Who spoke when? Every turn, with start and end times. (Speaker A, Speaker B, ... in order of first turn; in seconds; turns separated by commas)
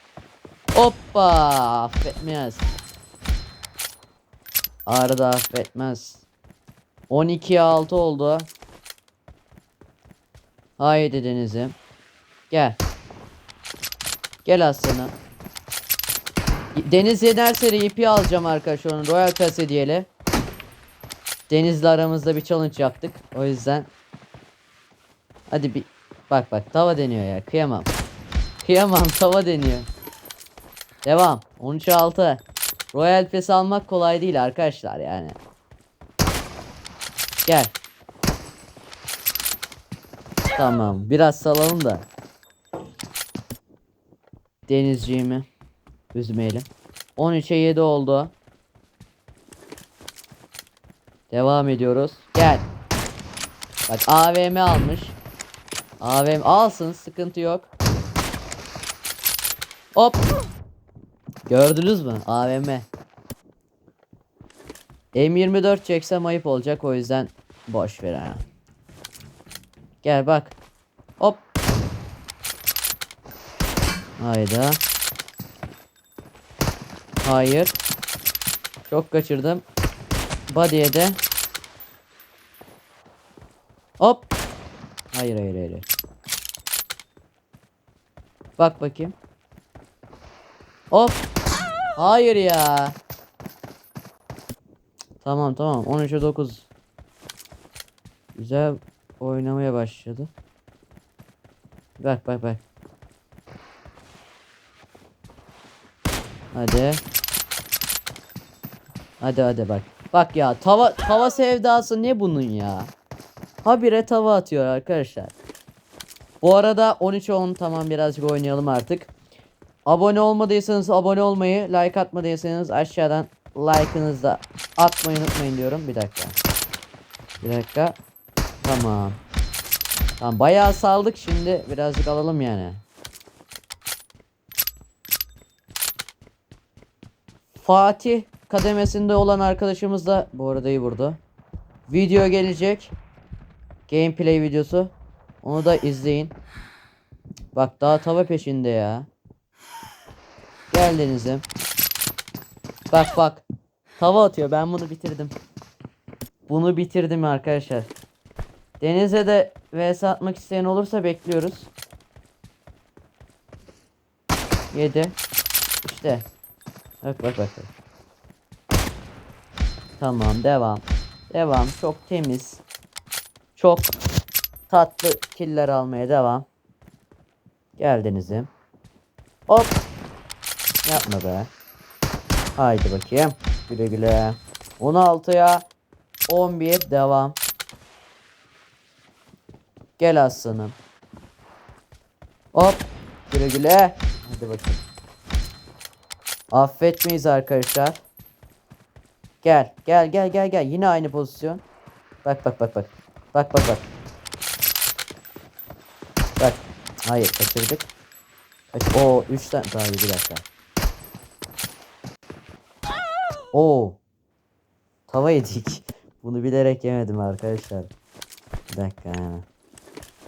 Speaker A: 0.7-2.7, Speaker A: 4.9-6.2, Speaker A: 7.1-8.5, Speaker A: 10.8-11.8, Speaker A: 12.5-12.8, Speaker A: 14.4-15.1, Speaker A: 16.8-20.1, Speaker A: 21.5-23.9, Speaker A: 25.5-27.9, Speaker A: 28.6-29.9, Speaker A: 31.0-35.4, Speaker A: 37.4-37.7, Speaker A: 40.5-42.1, Speaker A: 44.7-45.5, Speaker A: 46.1-48.3, Speaker A: 51.3-52.7, Speaker A: 53.9-55.2, Speaker A: 56.0-57.7, Speaker A: 59.9-60.2, Speaker A: 61.4-62.9, Speaker A: 65.1-68.4, Speaker A: 70.0-70.5, Speaker A: 74.2-74.8, Speaker A: 77.2-77.8, Speaker A: 78.9-79.6, Speaker A: 80.5-81.2, Speaker A: 84.0-84.3, Speaker A: 85.1-85.9, Speaker A: 88.6-89.2, Speaker A: 90.9-91.2, Speaker A: 92.0-93.0, Speaker A: 95.2-96.7, Speaker A: 98.3-100.3, Speaker A: 102.0-102.6, Speaker A: 106.5-107.0, Speaker A: 109.2-112.9, Speaker A: 113.6-115.3, Speaker A: 116.4-119.1, Speaker A: 119.9-126.4, Speaker A: 127.4-128.0, Speaker A: 128.6-129.2, Speaker A: 130.2-132.8, Speaker A: 137.6-141.2, Speaker A: 141.9-142.9, Speaker A: 143.9-146.3, Speaker A: 147.5-149.1, Speaker A: 150.7-151.4, Speaker A: 152.9-153.4, Speaker A: 154.0-155.3, Speaker A: 156.5-157.9, Speaker A: 158.8-161.7, Speaker A: 164.7-165.2, Speaker A: 165.8-166.2, Speaker A: 167.0-167.7, Speaker A: 170.0-172.6, Speaker A: 173.6-173.9, Speaker A: 174.7-176.5, Speaker A: 177.8-178.5, Speaker A: 179.5-179.8, Speaker A: 180.8-181.5, Speaker A: 182.6-185.7, Speaker A: 186.3-187.4, Speaker A: 190.0-190.8, Speaker A: 192.5-194.8, Speaker A: 196.5-198.0, Speaker A: 199.4-201.6, Speaker A: 202.2-203.9, Speaker A: 206.4-207.9, Speaker A: 208.7-210.4, Speaker A: 213.5-214.0, Speaker A: 215.1-217.9, Speaker A: 218.7-219.5